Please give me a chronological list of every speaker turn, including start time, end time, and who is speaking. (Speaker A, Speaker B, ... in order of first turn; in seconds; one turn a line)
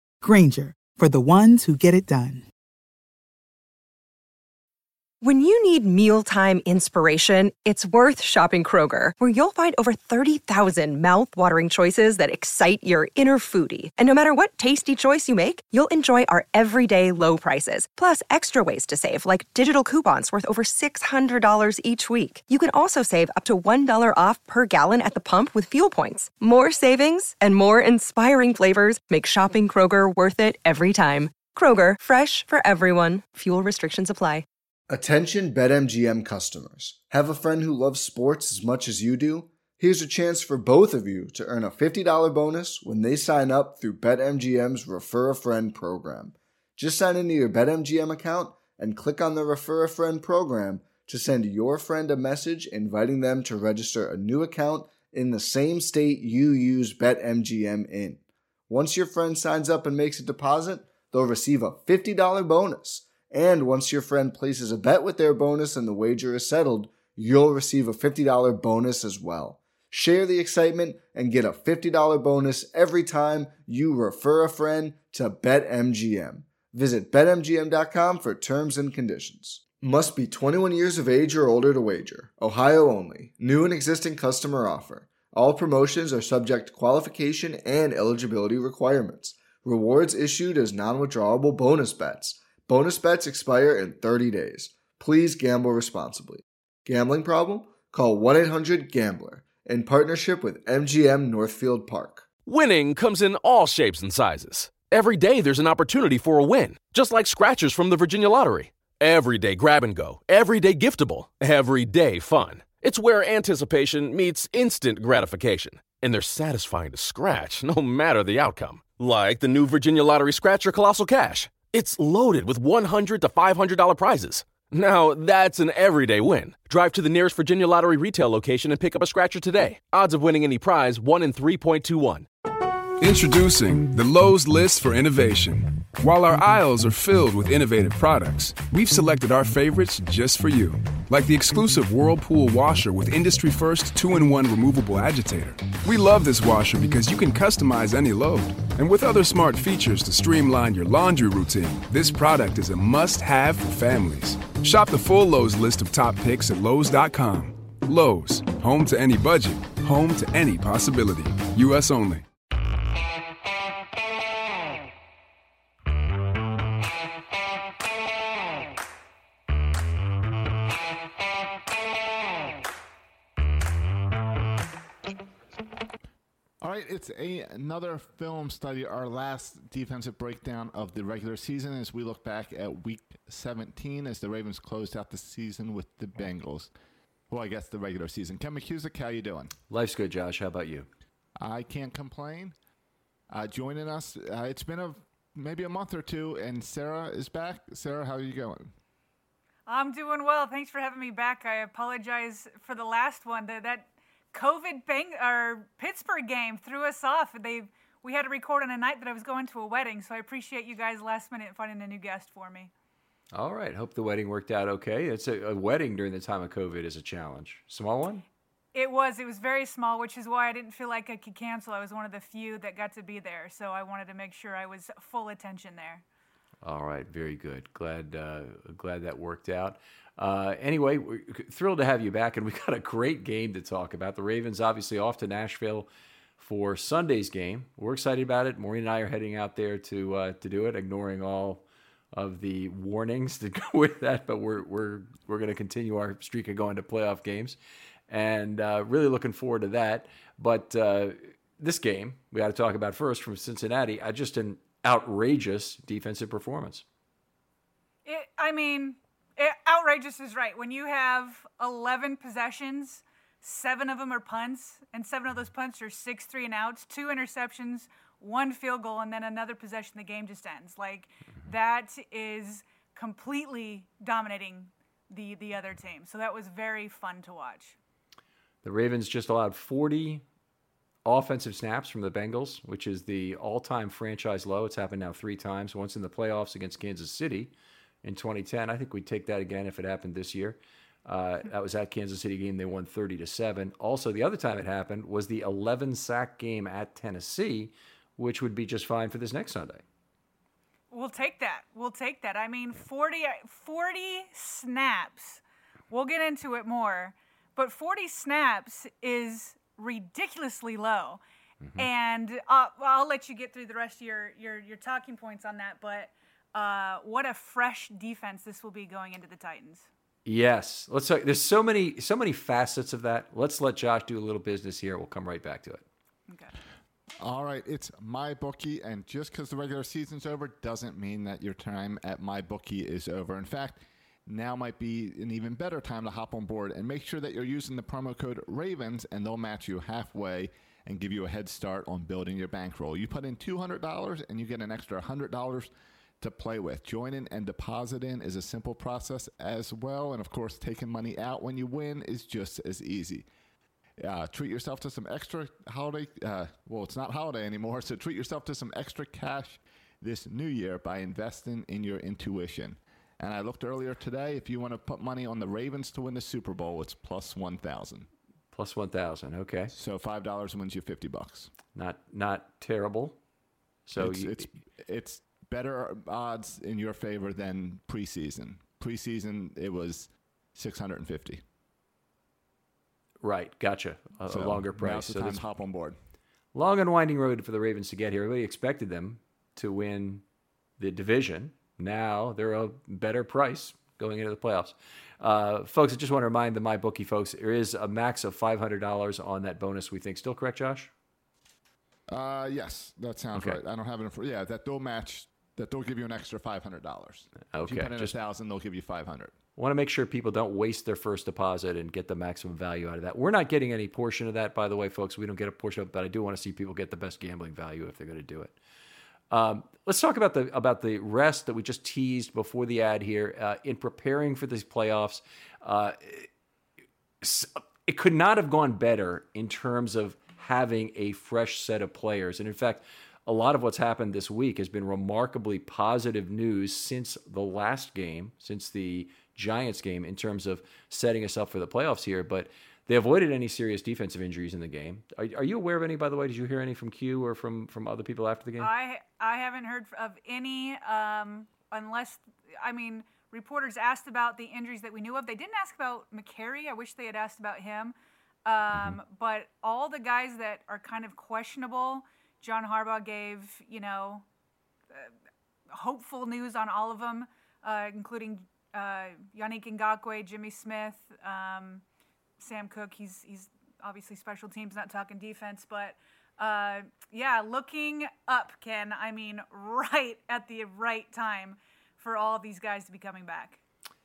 Speaker A: 0.2-2.5
Speaker B: 5.2-34.5
Speaker C: 34.9-102.2
Speaker D: 102.5-132.3
Speaker E: 133.0-162.3
Speaker F: 176.6-186.7
Speaker F: 187.3-189.5
Speaker G: 189.7-190.9
Speaker F: 191.4-192.6
Speaker F: 193.3-198.7
Speaker H: 199.7-212.7
Speaker G: 213.3-218.2
Speaker H: 218.7-226.0
Speaker G: 226.6-235.9
Speaker G: 236.4-241.6
Speaker G: 242.1-247.6
Speaker G: 248.1-256.8
Speaker H: 258.1-277.8
Speaker G: 278.6-280.2
Speaker G: 281.1-287.5
Speaker G: 288.0-299.8
Speaker H: 300.9-311.2
Speaker G: 311.6-311.9
Speaker H: 311.8-319.9
Speaker G: 320.3-325.8
Speaker H: 326.3-326.5
Speaker F: 327.2-353.3
Speaker F: 354.0-368.1
Speaker G: 368.5-369.7
Speaker F: 369.7-371.5
Speaker G: 371.8-373.2
Speaker G: 373.9-374.4
Speaker F: 374.0-381.4
Speaker G: 383.2-385.4
Speaker F: 384.3-386.0
Speaker G: 386.5-390.2
Speaker G: 390.8-400.9
Speaker F: 402.1-409.4
Speaker G: 403.3-403.6
Speaker G: 407.5-408.1
Speaker G: 409.6-418.6
Speaker G: 419.3-426.3
Speaker G: 427.2-448.7
Speaker H: 448.6-457.9
Speaker H: 458.5-464.2
Speaker G: 458.7-459.0
Speaker H: 465.7-471.8
Speaker H: 472.4-483.6